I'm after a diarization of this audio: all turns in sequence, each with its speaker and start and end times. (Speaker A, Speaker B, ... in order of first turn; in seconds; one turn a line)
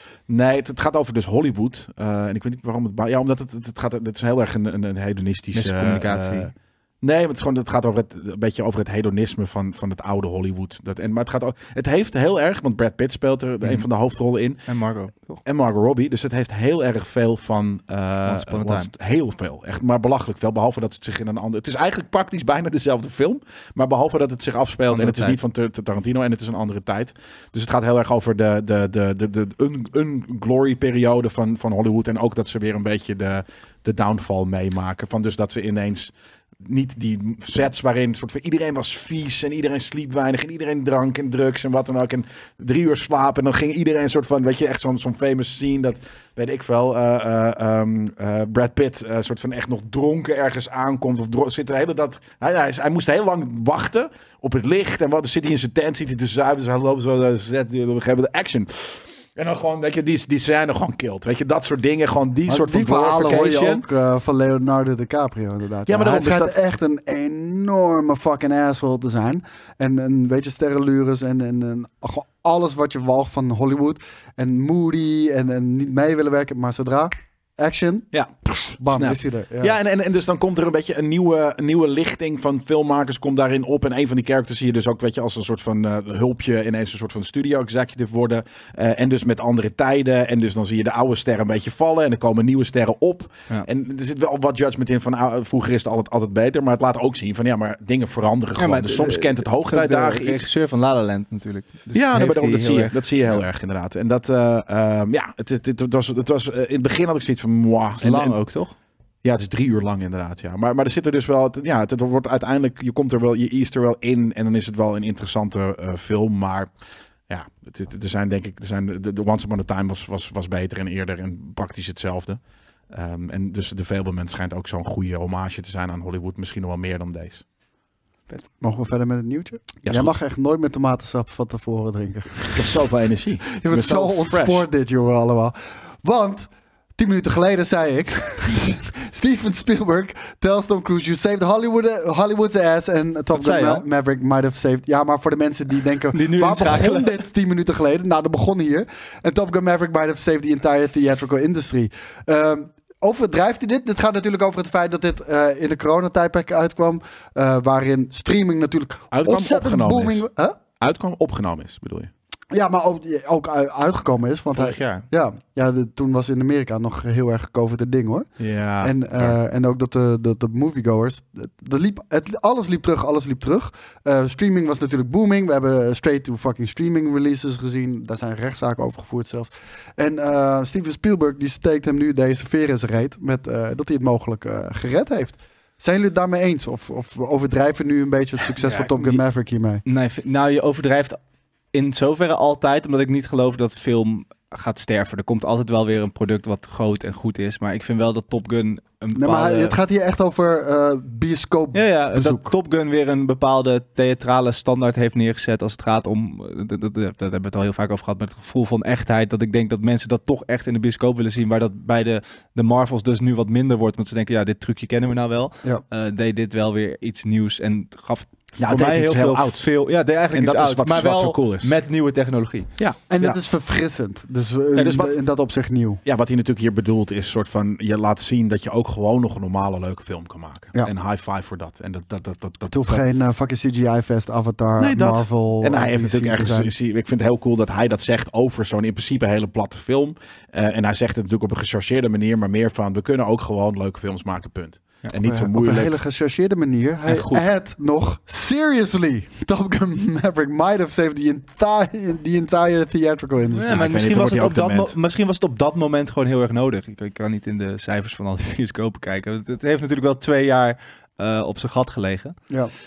Speaker A: 0.3-14.7
Speaker B: 5.5-6.5
Speaker B: 14.7-15.4
Speaker A: 15.4-63.9
Speaker B: 18.2-18.9
Speaker B: 24.9-25.4
Speaker C: 62.5-78.1
Speaker A: 65.9-66.6
Speaker A: 78.1-100.5
Speaker C: 78.8-79.8
Speaker B: 98.6-103.4
Speaker A: 101.9-108.4
Speaker B: 108.0-108.7
Speaker A: 109.2-116.7
Speaker A: 117.3-127.5
Speaker C: 128.6-132.8
Speaker A: 129.8-130.1
Speaker A: 132.5-134.7
Speaker C: 133.6-160.6
Speaker B: 143.3-143.8
Speaker B: 146.1-147.2
Speaker A: 159.1-160.3
Speaker A: 160.8-162.1
Speaker C: 162.5-168.3
Speaker B: 164.5-165.1
Speaker A: 168.4-169.4
Speaker C: 168.8-189.8
Speaker B: 188.6-189.2
Speaker B: 189.8-191.2
Speaker B: 191.7-199.8
Speaker C: 199.2-202.5
Speaker B: 201.7-222.7
Speaker A: 218.6-219.7
Speaker A: 220.3-221.7
Speaker A: 222.8-223.4
Speaker C: 223.1-226.0
Speaker A: 224.8-225.2
Speaker A: 226.1-233.0
Speaker C: 232.7-236.7
Speaker A: 234.8-245.9
Speaker C: 245.2-253.8
Speaker B: 247.1-247.5
Speaker B: 253.6-262.5
Speaker A: 253.7-255.0